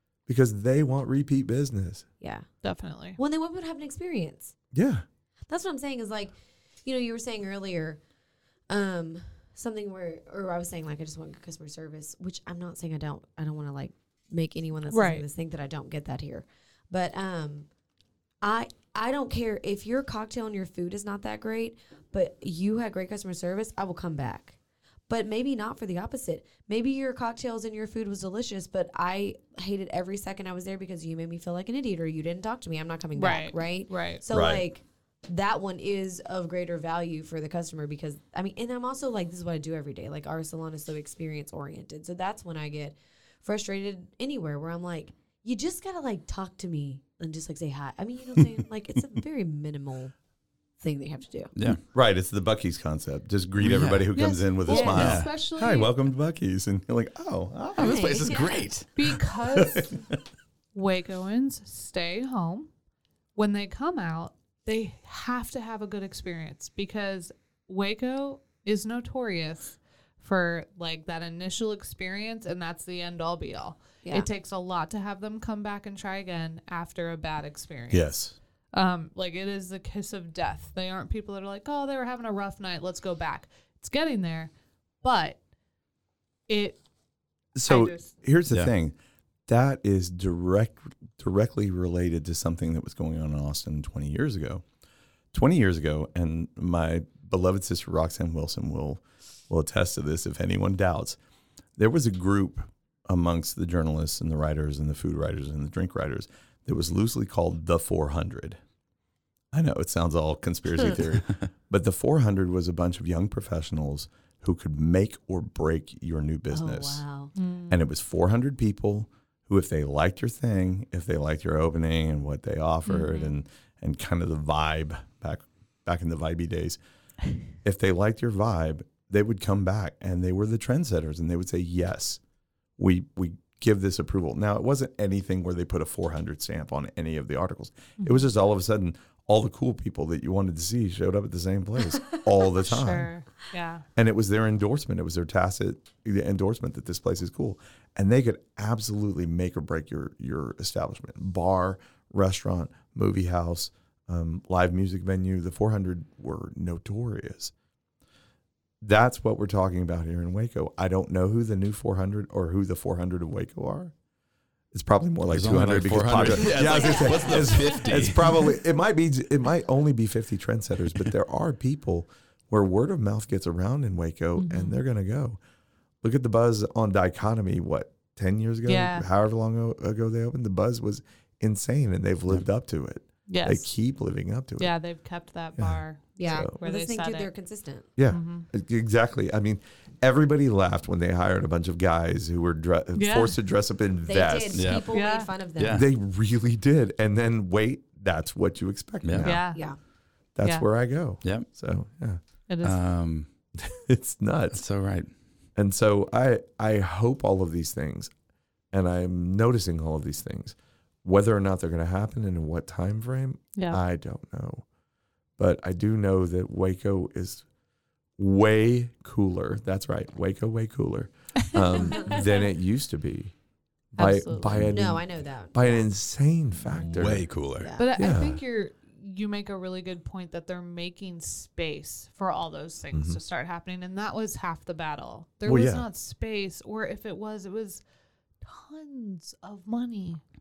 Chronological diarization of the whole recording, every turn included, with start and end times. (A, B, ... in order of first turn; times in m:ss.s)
0:00.3-0:02.0 A
0:02.2-0:02.5 B
0:02.6-0:03.2 C
0:03.2-0:04.5 B
0:04.7-0:05.0 A
0:05.5-0:06.3 B
0:06.8-0:08.0 B
0:08.7-0:17.7 B
0:14.9-0:15.2 C
0:18.4-0:24.6 B
0:25.1-0:50.1 B
0:33.2-0:34.2 C
0:34.3-0:34.7 A
0:48.4-0:49.2 A
0:50.8-0:51.5 B
0:51.6-0:51.8 D
0:51.9-0:58.4 A
0:53.6-0:54.1 D
0:54.2-0:55.9 C
0:54.7-0:55.0 B
0:54.9-0:55.3 D
0:57.8-0:58.7 B
0:57.8-0:58.9 D
0:59.0-0:59.9 C
0:59.4-1:00.0 A
1:00.7-1:02.7 C
1:03.4-1:18.1 C
1:17.9-1:18.4 A
1:18.7-1:24.5 C
1:25.0-1:25.4 C
1:26.5-1:26.8 C
1:27.6-1:29.0 A
1:27.7-1:28.1 C
1:29.5-1:34.6 A
1:35.3-1:41.2 A
1:41.8-1:48.6 A
1:49.5-1:57.0 A
1:56.5-1:57.3 B
1:57.4-1:57.8 C
1:57.7-2:06.8 A
2:02.9-2:03.3 B
2:07.6-2:12.2 A
2:12.8-2:23.1 A
2:18.0-2:18.3 C
2:22.5-2:23.8 C
2:24.0-2:37.5 A
2:38.8-2:43.9 A
2:44.7-2:55.4 A
2:45.3-2:48.4 D
2:46.6-2:47.7 B
2:54.4-2:54.8 C
2:56.0-3:04.7 A
2:58.7-2:59.1 C
3:03.3-3:03.7 C
3:04.6-3:07.3 C
3:05.6-3:06.5 A
3:06.2-3:07.9 B
3:08.0-3:14.8 A
3:08.1-3:08.5 C
3:13.0-3:13.4 C
3:14.0-3:15.8 B
3:14.6-3:14.9 D
3:14.9-3:15.4 C
3:15.6-3:15.9 D
3:15.6-3:19.5 A
3:19.0-3:19.4 D
3:19.2-3:19.7 C
3:20.4-3:22.2 A
3:22.5-3:22.8 C
3:22.6-3:23.3 D
3:23.6-3:24.6 A
3:24.5-3:25.1 D
3:25.6-3:28.1 A
3:28.7-3:34.6 A
3:33.6-3:33.8 C
3:35.4-3:37.4 A
3:38.2-3:43.3 A
3:41.5-3:42.3 C
3:44.0-3:47.3 A
3:44.0-3:45.9 B
3:46.8-3:47.7 D
3:47.6-3:47.9 B
3:47.8-3:57.8 C
3:48.0-3:48.4 A
3:52.9-3:53.2 A
3:55.4-3:55.9 A
3:58.4-4:00.2 C